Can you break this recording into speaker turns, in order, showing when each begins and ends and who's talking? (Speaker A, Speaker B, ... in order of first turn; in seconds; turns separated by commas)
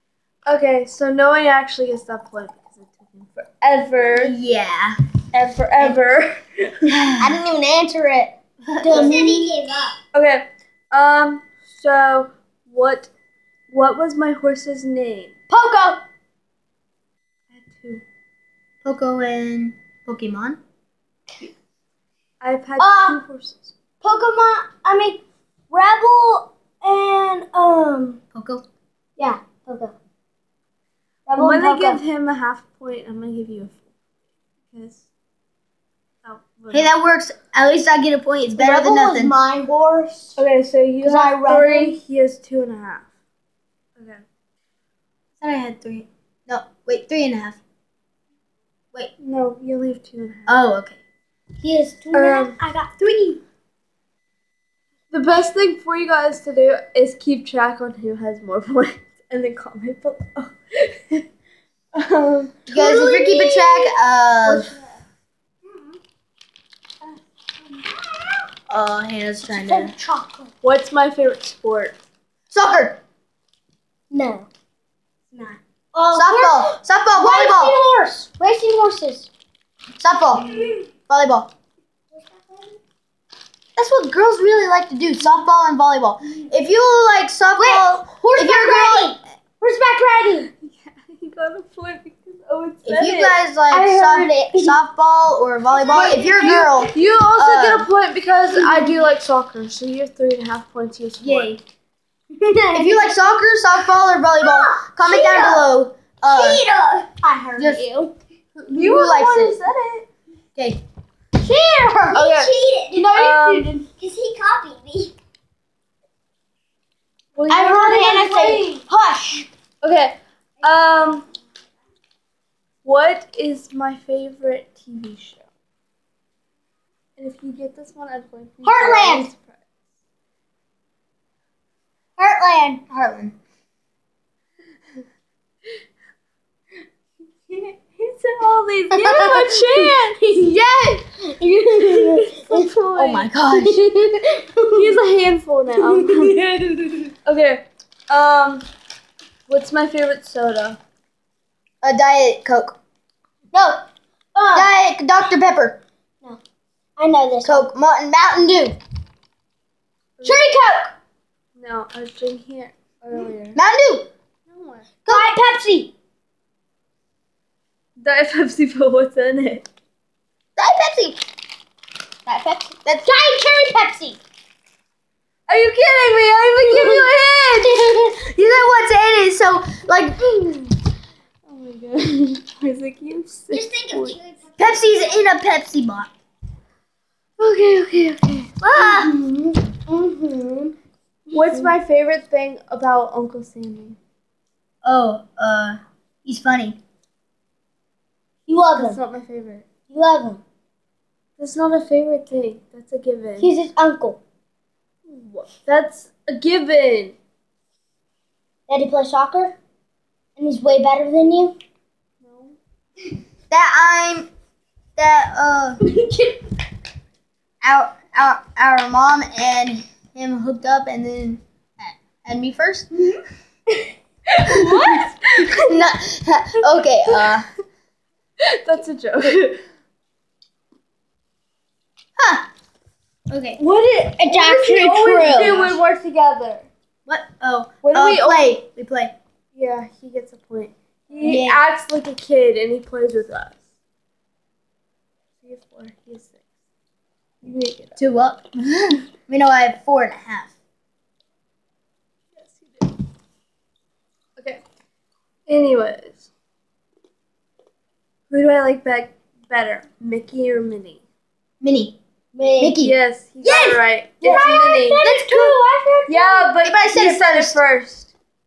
Speaker A: 0.5-4.3, Speaker B: 4.2-5.0, Speaker A: 5.3-7.0, Speaker B: 6.9-7.4, Speaker C: 7.2-10.0, Speaker B: 8.6-9.5, Speaker A: 10.1-13.1, Speaker A: 13.7-15.3, Speaker C: 15.5-16.0, Speaker A: 17.5-18.0, Speaker B: 18.8-20.6, Speaker A: 22.4-23.7, Speaker C: 22.8-23.2, Speaker C: 24.0-28.2, Speaker B: 28.3-28.6, Speaker C: 29.2-29.9, Speaker C: 31.3-32.0, Speaker A: 31.4-33.9, Speaker A: 34.7-35.0, Speaker A: 36.2-36.9, Speaker B: 36.7-39.4, Speaker C: 38.5-40.4, Speaker A: 40.4-43.1, Speaker C: 41.0-42.0, Speaker A: 44.0-44.2, Speaker B: 45.4-47.6, Speaker A: 49.2-50.6, Speaker B: 50.5-51.0, Speaker C: 51.6-53.4, Speaker A: 52.1-52.6, Speaker A: 55.1-61.2, Speaker A: 61.9-62.7, Speaker C: 62.7-63.9, Speaker B: 62.7-64.7, Speaker A: 64.4-65.0, Speaker C: 68.0-68.5, Speaker B: 68.7-69.9, Speaker C: 69.5-70.5, Speaker A: 70.6-71.9, Speaker B: 72.5-73.0, Speaker C: 74.1-74.5, Speaker C: 75.3-79.3, Speaker B: 76.1-77.8, Speaker B: 80.0-80.5, Speaker B: 81.1-81.5, Speaker C: 82.1-82.8, Speaker B: 83.8-89.2, Speaker C: 87.5-90.5, Speaker A: 90.6-93.4, Speaker B: 92.8-97.9, Speaker C: 93.7-94.8, Speaker C: 95.7-96.9, Speaker A: 96.8-101.5, Speaker C: 98.6-98.9, Speaker B: 101.2-101.6, Speaker C: 102.3-103.2, Speaker B: 102.7-106.6, Speaker C: 104.4-105.7, Speaker C: 106.3-108.1, Speaker B: 107.6-107.8, Speaker A: 108.5-110.1, Speaker B: 108.7-109.6, Speaker B: 110.5-110.8, Speaker C: 111.3-113.1, Speaker A: 112.1-112.5, Speaker B: 112.9-113.8, Speaker A: 113.1-113.8, Speaker C: 113.9-115.1, Speaker A: 117.3-118.8, Speaker C: 117.5-119.5, Speaker A: 119.8-121.2, Speaker A: 122.8-125.5, Speaker A: 127.2-129.6, Speaker C: 128.6-129.3, Speaker C: 132.2-132.8, Speaker B: 132.8-133.3, Speaker A: 137.5-140.2, Speaker C: 138.9-142.7, Speaker A: 141.8-143.3, Speaker B: 142.9-143.8, Speaker C: 143.5-144.9, Speaker A: 144.7-146.4, Speaker C: 145.8-147.0, Speaker A: 147.2-148.6, Speaker A: 149.5-150.8, Speaker B: 151.8-152.8, Speaker C: 153.5-154.7, Speaker B: 154.5-155.8, Speaker C: 157.0-157.7, Speaker B: 157.4-158.8, Speaker A: 160.2-160.4, Speaker C: 160.2-160.9, Speaker A: 161.6-163.6, Speaker B: 163.5-164.1, Speaker A: 164.5-164.9, Speaker B: 165.1-165.3, Speaker C: 165.1-165.9, Speaker A: 168.0-169.7, Speaker B: 170.6-171.2, Speaker B: 172.2-173.1, Speaker C: 173.0-174.2, Speaker A: 175.5-177.8, Speaker C: 176.7-177.0, Speaker B: 177.9-180.6, Speaker A: 181.4-184.2, Speaker C: 183.5-184.8, Speaker B: 184.6-186.1, Speaker A: 187.4-189.6, Speaker C: 188.6-189.1, Speaker B: 188.7-189.1, Speaker C: 189.9-190.7, Speaker C: 191.3-191.7, Speaker A: 191.3-194.0, Speaker B: 194.8-196.8, Speaker C: 198.5-199.0, Speaker A: 198.8-199.7, Speaker C: 199.9-200.4, Speaker A: 201.4-203.5, Speaker C: 203.4-204.2, Speaker A: 205.1-207.2, Speaker C: 208.7-209.6, Speaker C: 210.4-211.6, Speaker A: 212.2-212.6, Speaker B: 213.5-214.3, Speaker B: 214.9-215.8, Speaker C: 215.8-216.4, Speaker B: 217.6-222.9, Speaker A: 224.3-225.8, Speaker C: 224.5-225.0, Speaker B: 225.6-227.5, Speaker A: 228.5-229.6, Speaker B: 232.2-232.5, Speaker B: 233.3-233.6, Speaker A: 233.6-236.7, Speaker C: 234.2-235.6, Speaker B: 235.0-235.8, Speaker B: 237.1-239.1, Speaker A: 237.8-238.6, Speaker A: 239.5-243.6, Speaker B: 241.1-241.6, Speaker A: 245.4-246.4, Speaker A: 247.4-248.0, Speaker B: 248.0-250.5, Speaker A: 252.3-252.9, Speaker A: 255.5-256.3, Speaker A: 258.3-261.0, Speaker B: 261.6-262.0, Speaker C: 262.3-262.8, Speaker B: 262.6-262.9, Speaker A: 262.8-265.1, Speaker C: 263.4-266.6, Speaker B: 265.0-265.6, Speaker A: 266.1-268.1, Speaker B: 266.6-267.6